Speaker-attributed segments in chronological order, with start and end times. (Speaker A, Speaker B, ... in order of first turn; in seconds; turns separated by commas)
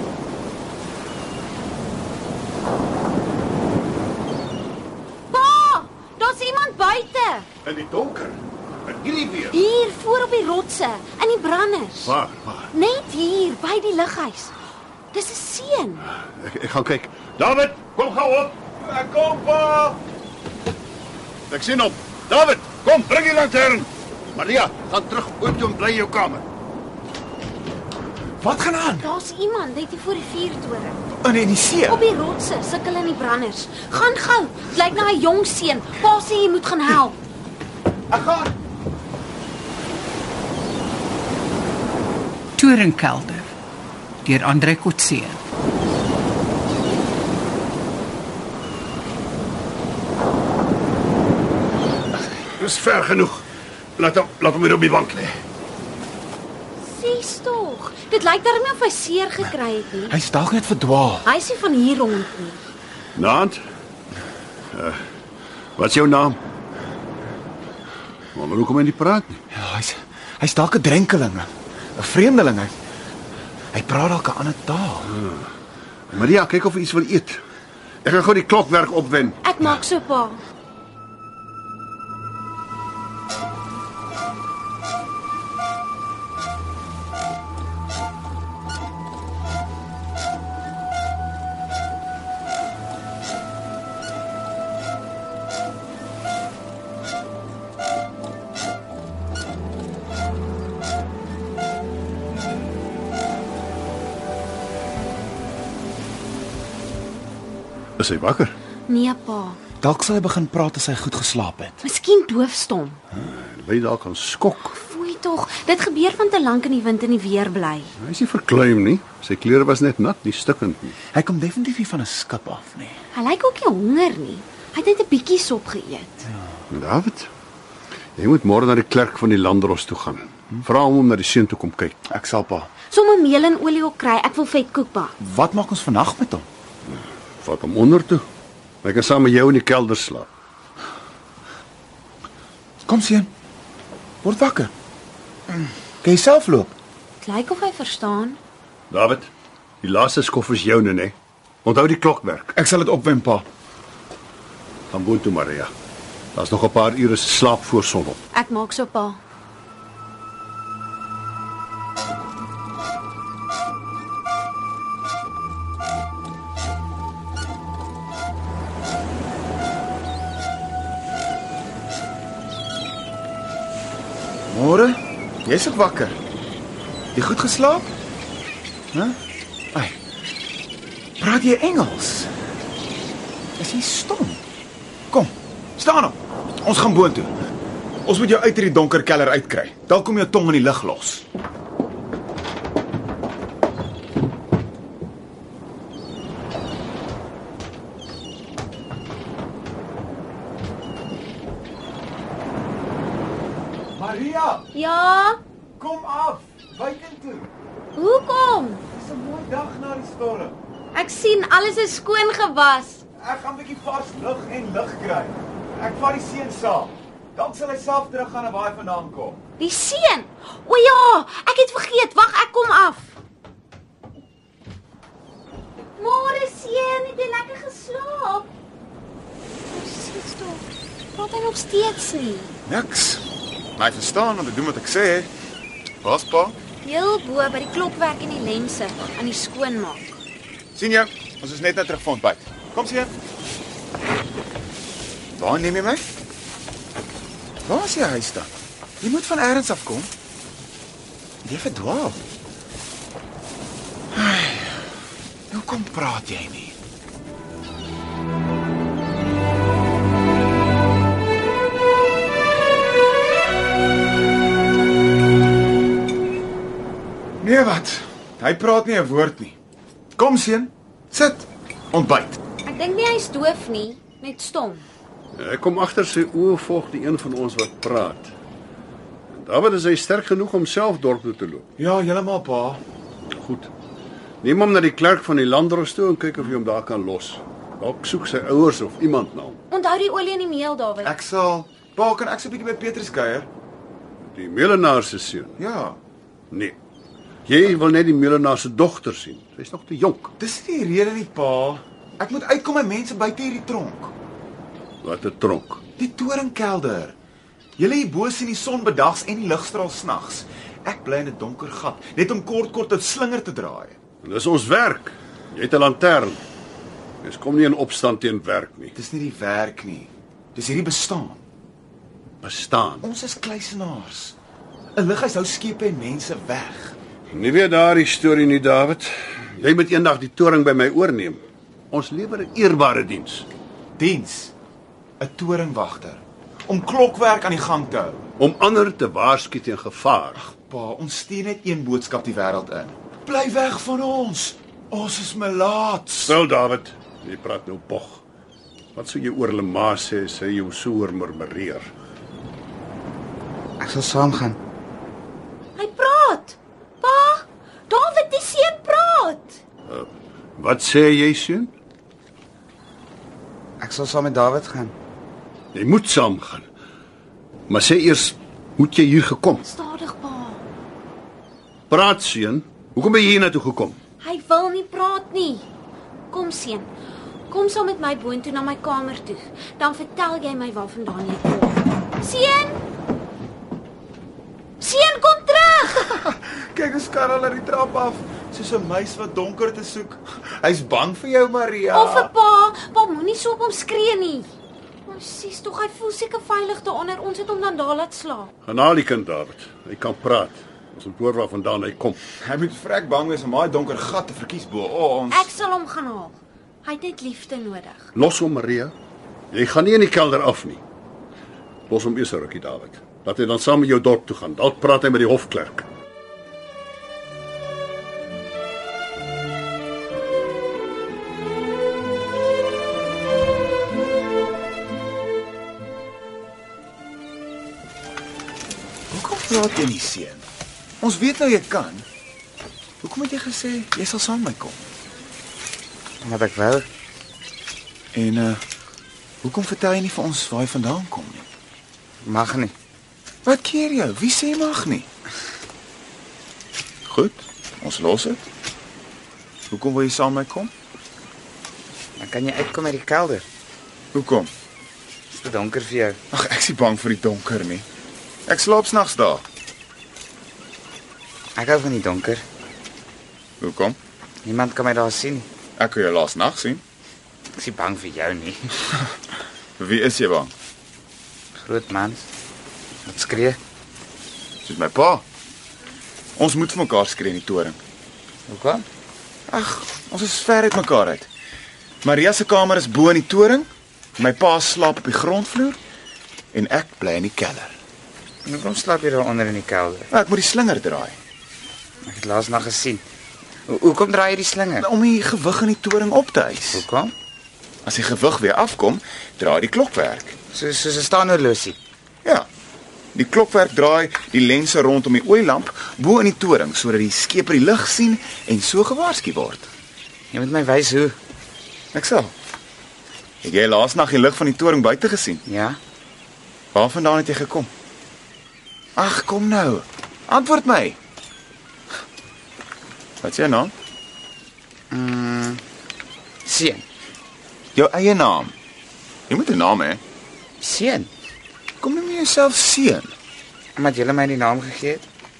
Speaker A: 5.3-7.5, Speaker B: 7.6-9.6, Speaker A: 9.5-12.2, Speaker B: 12.1-12.7, Speaker A: 12.7-14.5, Speaker A: 15.1-16.1, Speaker B: 16.2-18.6, Speaker C: 18.8-20.0, Speaker B: 21.5-26.4, Speaker C: 28.4-29.1, Speaker A: 29.0-31.0, Speaker C: 31.2-32.0, Speaker A: 31.9-37.2, Speaker C: 38.1-38.5, Speaker D: 42.6-43.5, Speaker D: 44.2-45.4, Speaker B: 52.6-53.4, Speaker B: 54.0-55.4, Speaker A: 56.8-60.2, Speaker C: 60.1-61.3, Speaker A: 61.2-62.6, Speaker B: 63.1-63.6, Speaker B: 64.7-65.0, Speaker B: 65.8-66.4, Speaker B: 68.3-69.4, Speaker C: 69.5-72.7, Speaker C: 73.7-75.2, Speaker B: 75.2-75.4, Speaker B: 76.1-77.4, Speaker B: 78.0-79.4, Speaker A: 79.4-80.4, Speaker B: 108.0-108.5, Speaker A: 108.9-109.6, Speaker C: 109.8-111.8, Speaker A: 111.8-113.0, Speaker B: 113.2-114.8, Speaker A: 114.8-117.9, Speaker B: 118.0-121.0, Speaker C: 121.1-123.0, Speaker A: 123.1-126.3, Speaker B: 126.7-127.3, Speaker B: 128.2-132.0, Speaker C: 132.1-132.7, Speaker A: 132.9-135.2, Speaker C: 135.2-136.5, Speaker B: 137.4-138.2, Speaker B: 138.8-140.3, Speaker C: 142.9-143.3, Speaker C: 144.2-144.7, Speaker C: 146.0-146.8, Speaker A: 147.2-148.4, Speaker B: 148.9-149.3, Speaker B: 149.8-152.5, Speaker C: 152.5-153.5, Speaker B: 154.9-155.7, Speaker B: 156.3-158.2, Speaker A: 158.3-159.2, Speaker C: 174.5-176.2, Speaker C: 177.2-177.9, Speaker C: 179.7-180.0, Speaker C: 181.2-182.3, Speaker C: 183.6-184.4, Speaker C: 185.1-187.3, Speaker C: 188.1-191.2, Speaker C: 203.9-204.7, Speaker A: 204.7-205.4, Speaker C: 205.8-207.5, Speaker A: 208.0-208.9, Speaker C: 208.9-210.6, Speaker A: 210.9-213.0, Speaker C: 213.2-219.4, Speaker A: 219.6-223.1, Speaker A: 226.0-228.5, Speaker A: 229.7-232.5, Speaker C: 232.7-233.3, Speaker C: 233.8-235.3, Speaker C: 236.0-236.6, Speaker A: 236.8-240.2, Speaker C: 240.8-243.1, Speaker C: 245.4-246.1, Speaker C: 247.7-248.5, Speaker C: 249.0-250.1, Speaker C: 251.4-252.2, Speaker C: 254.1-254.9, Speaker C: 255.5-256.8, Speaker C: 267.4-269.6, Speaker C: 270.2-272.4, Speaker A: 272.6-274.9, Speaker B: 275.4-278.3, Speaker B: 279.3-281.7, Speaker C: 281.8-282.8, Speaker B: 283.2-283.7, Speaker B: 284.4-289.6, Speaker A: 289.7-291.1, Speaker C: 291.0-293.5, Speaker B: 294.3-295.6, Speaker C: 295.6-296.0, Speaker B: 296.5-296.8, Speaker B: 297.5-300.3, Speaker C: 300.4-304.1, Speaker B: 305.0-305.8, Speaker C: 306.0-307.1, Speaker C: 307.8-314.0, Speaker B: 314.2-316.4, Speaker B: 317.2-318.9, Speaker C: 318.9-321.4, Speaker B: 322.4-323.1, Speaker C: 323.0-324.4, Speaker C: 324.9-326.9, Speaker B: 327.3-333.5, Speaker C: 334.0-334.5, Speaker C: 335.2-338.3, Speaker B: 338.4-340.4, Speaker C: 340.4-346.4, Speaker B: 346.3-348.2, Speaker B: 348.9-351.9, Speaker E: 353.8-354.6, Speaker A: 355.8-359.6, Speaker B: 359.9-361.7, Speaker E: 363.8-364.9, Speaker B: 365.7-366.7, Speaker B: 367.7-369.6, Speaker A: 369.6-370.6, Speaker B: 371.9-374.0, Speaker A: 374.2-375.7, Speaker A: 376.3-376.9, Speaker A: 377.5-382.8, Speaker A: 384.8-386.2, Speaker C: 386.1-392.3, Speaker A: 391.9-394.5, Speaker A: 395.1-398.5, Speaker B: 398.6-402.2, Speaker C: 402.4-405.5, Speaker A: 405.3-408.1, Speaker B: 408.1-408.9, Speaker B: 409.5-410.8, Speaker B: 411.9-415.9, Speaker C: 429.1-430.4, Speaker C: 431.0-432.1, Speaker C: 433.0-434.8, Speaker E: 436.2-436.9, Speaker C: 438.1-438.6, Speaker C: 439.4-441.5, Speaker E: 442.2-442.8, Speaker C: 443.4-445.1, Speaker C: 447.1-448.4, Speaker C: 449.7-450.7, Speaker E: 452.2-453.5, Speaker C: 454.1-454.5, Speaker E: 455.3-456.2, Speaker C: 456.3-457.9, Speaker C: 458.5-459.4, Speaker E: 461.6-462.4, Speaker C: 463.6-464.0, Speaker E: 464.4-465.5, Speaker C: 465.8-466.8, Speaker E: 467.5-468.7, Speaker C: 469.8-470.5, Speaker E: 471.6-472.3, Speaker E: 473.1-473.6, Speaker C: 474.6-475.2, Speaker C: 476.4-477.8, Speaker E: 478.5-478.9, Speaker C: 479.5-481.3, Speaker C: 482.0-485.8, Speaker C: 486.5-487.8, Speaker E: 488.4-490.1, Speaker C: 490.1-491.2, Speaker E: 492.1-493.0, Speaker E: 493.7-494.9, Speaker C: 494.8-496.9, Speaker E: 496.7-497.1, Speaker C: 497.8-500.4, Speaker E: 500.5-501.8, Speaker C: 503.1-509.7, Speaker E: 510.3-511.2, Speaker C: 511.9-512.3, Speaker C: 513.4-515.4, Speaker E: 515.5-515.8, Speaker C: 516.7-517.7, Speaker C: 519.0-521.0, Speaker C: 523.2-523.7, Speaker E: 524.9-525.6, Speaker E: 526.5-526.9, Speaker C: 527.8-528.5, Speaker C: 529.3-530.0, Speaker E: 530.6-531.1, Speaker C: 531.8-533.1, Speaker E: 533.8-535.0